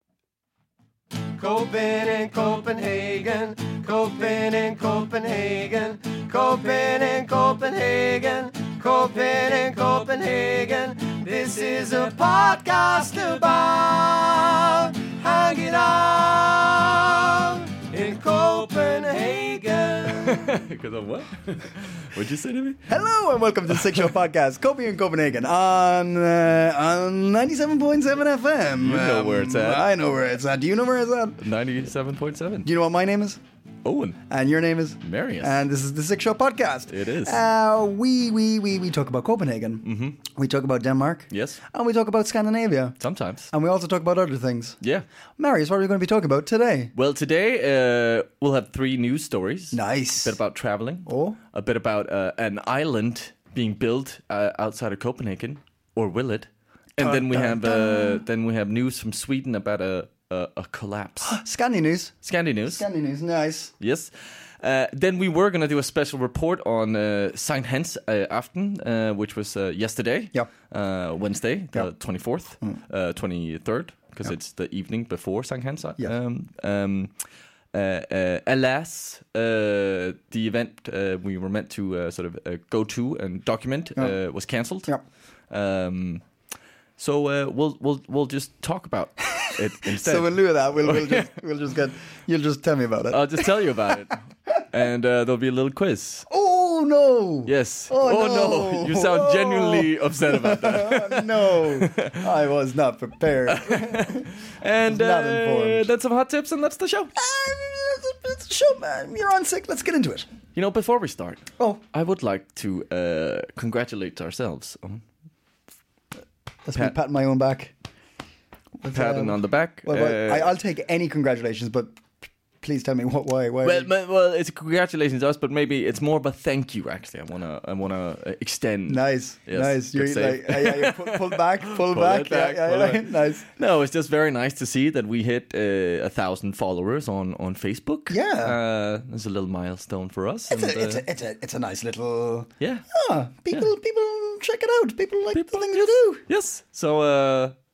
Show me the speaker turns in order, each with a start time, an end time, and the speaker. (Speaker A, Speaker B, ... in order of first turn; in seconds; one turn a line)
Speaker A: 1.3-20.6
Speaker B: 20.1-22.8
Speaker C: 22.9-31.4
Speaker B: 23.7-24.0
Speaker B: 28.8-29.8
Speaker B: 31.4-32.7
Speaker C: 32.6-33.4
Speaker B: 33.9-34.2
Speaker C: 34.3-43.0
Speaker B: 35.0-35.6
Speaker B: 36.9-37.4
Speaker B: 39.9-40.2
Speaker B: 41.3-41.6
Speaker B: 43.0-43.5
Speaker C: 43.5-44.8
Speaker C: 45.4-46.9
Speaker B: 47.0-61.4
Speaker C: 49.7-50.4
Speaker C: 51.1-51.4
Speaker C: 57.0-58.2
Speaker C: 61.2-62.2
Speaker B: 62.2-62.8
Speaker C: 62.7-63.7
Speaker B: 63.8-77.1
Speaker B: 77.7-84.9
Speaker B: 85.5-86.2
Speaker B: 87.0-91.3
Speaker C: 89.4-93.9
Speaker B: 93.1-96.3
Speaker C: 96.3-104.3
Speaker B: 97.5-102.3
Speaker B: 103.5-107.1
Speaker C: 104.9-105.9
Speaker C: 107.2-110.3
Speaker B: 110.5-115.0
Speaker C: 111.6-111.8
Speaker C: 116.7-117.7
Speaker C: 118.8-122.0
Speaker B: 118.9-120.5
Speaker C: 122.6-123.9
Speaker B: 123.6-141.0
Speaker C: 128.9-133.5
Speaker C: 138.1-138.6
Speaker C: 140.5-146.2
Speaker B: 142.6-142.8
Speaker B: 145.3-147.5